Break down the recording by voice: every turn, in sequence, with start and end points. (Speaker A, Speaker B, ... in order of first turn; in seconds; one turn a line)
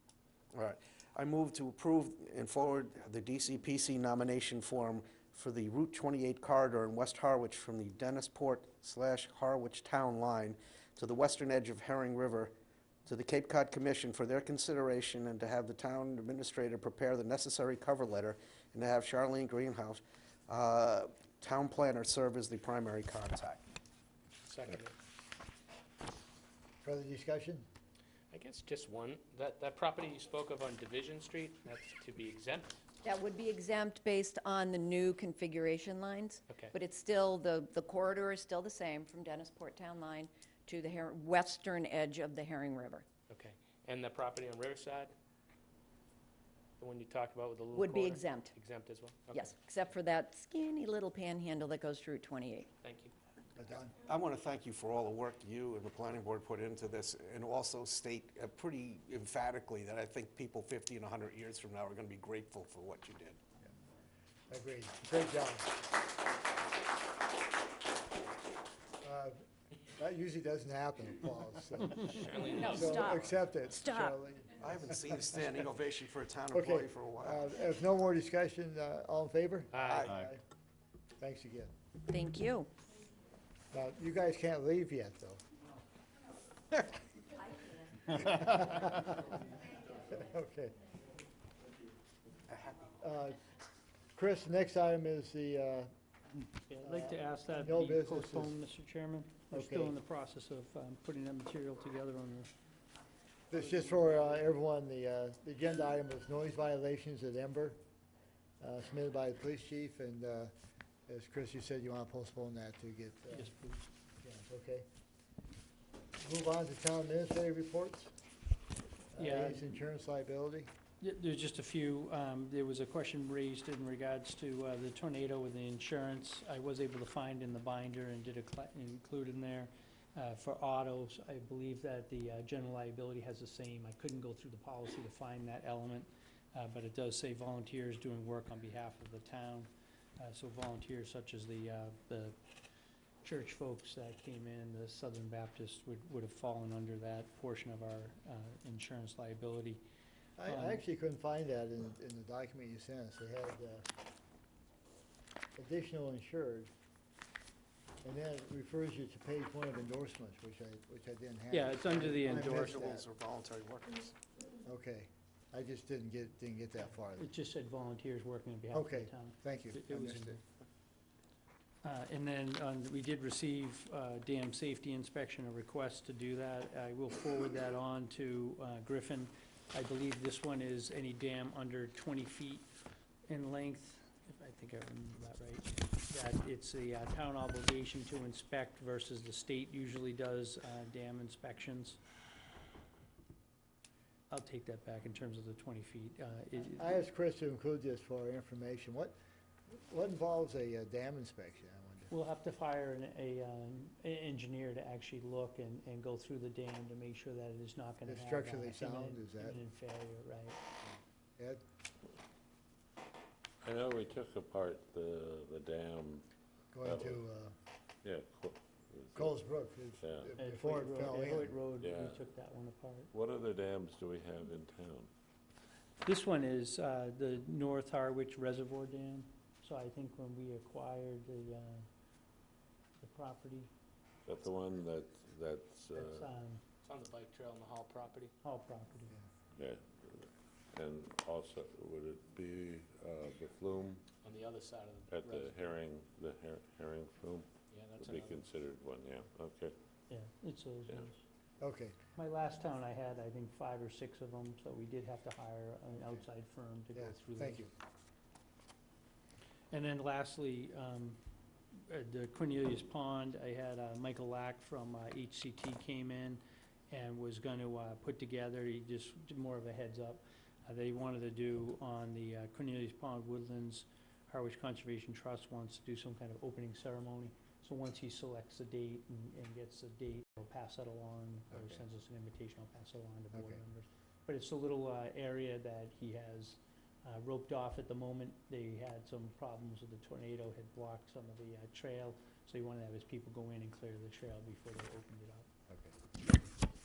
Speaker A: 0.5-12.5
Speaker A: 13.1-23.6
Speaker B: 24.4-25.0
Speaker C: 26.8-27.7
Speaker B: 28.3-32.8
Speaker D: 33.0-43.0
Speaker B: 36.5-36.8
Speaker B: 43.3-45.1
Speaker B: 46.8-49.5
Speaker D: 47.8-48.5
Speaker D: 49.3-52.7
Speaker B: 52.8-53.1
Speaker C: 53.5-54.0
Speaker A: 54.0-63.4
Speaker C: 64.5-65.7
Speaker C: 69.0-69.4
Speaker C: 70.0-75.1
Speaker B: 72.1-73.3
Speaker D: 72.6-73.2
Speaker D: 73.8-74.1
Speaker A: 74.6-77.5
Speaker C: 76.5-80.4
Speaker B: 79.7-80.3
Speaker A: 79.8-80.2
Speaker C: 81.2-81.7
Speaker D: 82.1-82.7
Speaker C: 83.7-85.4
Speaker C: 88.1-89.4
Speaker C: 90.1-90.8
Speaker C: 93.0-93.4
Speaker C: 94.2-95.9
Speaker E: 96.7-102.5
Speaker C: 96.8-98.6
Speaker C: 99.5-100.0
Speaker C: 103.5-107.8
Speaker B: 103.6-104.2
Speaker C: 108.6-110.5
Speaker C: 111.1-113.5
Speaker E: 113.3-113.9
Speaker C: 114.2-114.9
Speaker C: 116.2-118.1
Speaker C: 119.1-120.7
Speaker E: 119.2-119.7
Speaker E: 121.0-142.4
Speaker E: 143.2-149.8
Speaker C: 150.4-153.8
Speaker E: 150.5-150.8
Speaker C: 155.6-156.7
Speaker C: 158.0-163.1
Speaker E: 161.5-162.8
Speaker A: 162.3-164.2
Speaker C: 164.7-167.3
Speaker E: 167.2-170.4
Speaker C: 168.7-170.4
Speaker E: 171.8-182.7
Speaker E: 183.3-192.0
Speaker E: 194.3-196.9
Speaker C: 196.6-199.1
Speaker C: 199.7-202.1
Speaker E: 202.1-210.6
Speaker C: 208.1-209.6
Speaker C: 210.8-211.6
Speaker F: 213.6-216.2
Speaker C: 216.7-217.5
Speaker F: 216.8-217.2
Speaker F: 218.0-219.4
Speaker C: 219.2-221.6
Speaker F: 220.0-220.3
Speaker E: 220.4-223.1
Speaker F: 221.8-222.2
Speaker F: 223.1-225.1
Speaker E: 226.0-231.9
Speaker E: 233.0-233.7
Speaker F: 234.3-236.3
Speaker E: 235.9-236.6
Speaker B: 236.8-238.3
Speaker E: 238.4-239.2
Speaker F: 239.6-244.0
Speaker B: 244.2-245.5
Speaker F: 245.1-249.7
Speaker B: 247.7-248.4
Speaker E: 250.1-251.2
Speaker C: 251.6-252.0
Speaker E: 252.2-257.7
Speaker C: 256.9-257.7
Speaker E: 259.7-261.2
Speaker E: 261.8-295.5
Speaker C: 281.5-281.8
Speaker C: 283.3-283.6